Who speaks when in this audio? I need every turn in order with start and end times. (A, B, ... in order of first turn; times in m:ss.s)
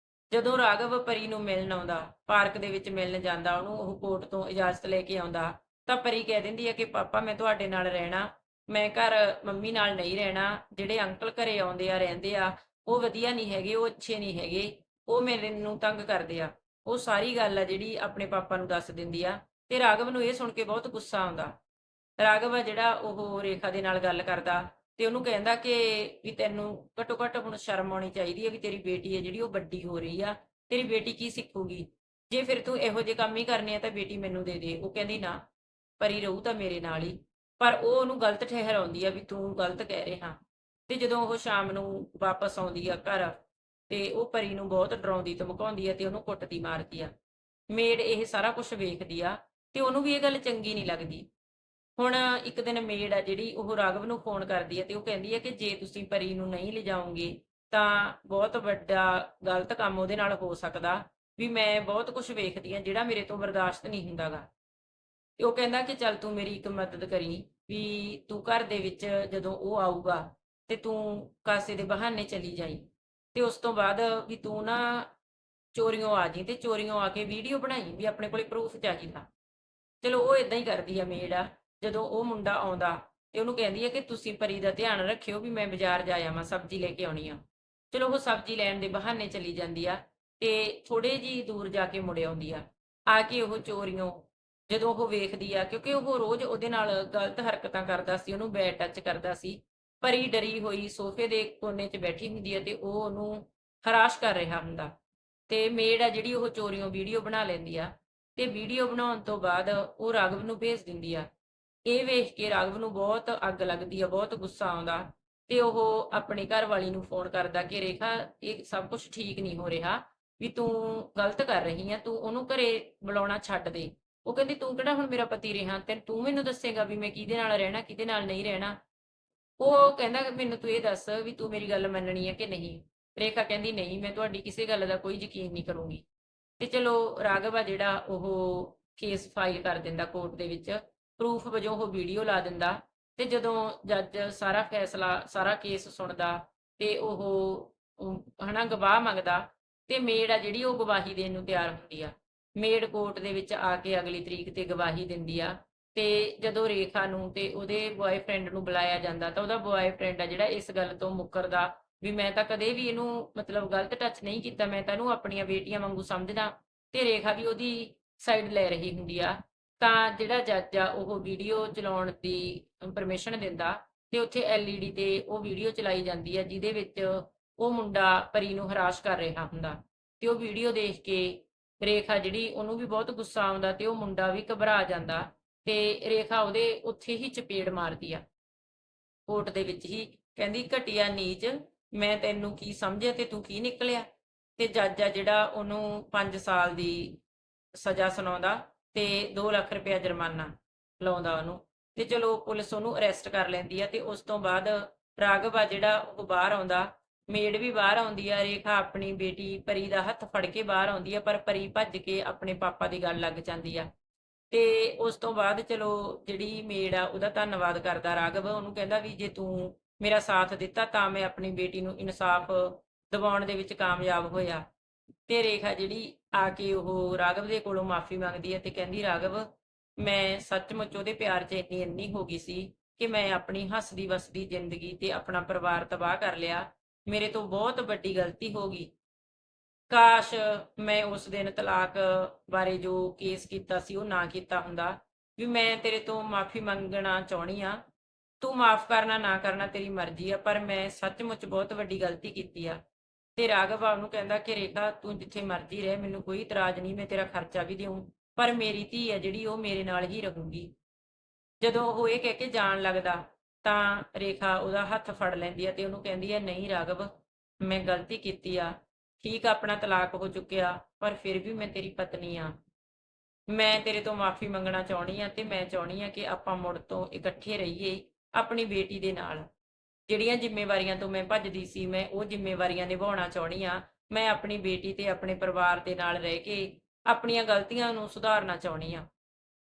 0:00.3-0:21.5 A
0:22.2-0:35.4 A
0:36.0-0:43.4 A
0:43.9-0:47.1 A
0:47.7-0:51.3 A
0:52.0-1:04.5 A
1:05.4-1:15.1 A
1:15.7-1:19.3 A
1:20.0-1:27.4 A
1:27.9-1:44.9 A
1:45.5-1:51.3 A
1:51.9-2:08.8 A
2:09.6-2:16.0 A
2:16.6-3:08.2 A
3:09.3-3:17.2 A
3:17.8-3:33.9 A
3:34.5-3:44.6 A
3:45.3-3:49.5 A
3:50.0-3:58.9 A
3:59.9-4:07.8 A
4:08.4-4:12.8 A
4:13.4-4:20.7 A
4:21.6-4:27.1 A
4:27.6-4:32.5 A
4:33.5-4:39.5 A
4:40.1-4:49.1 A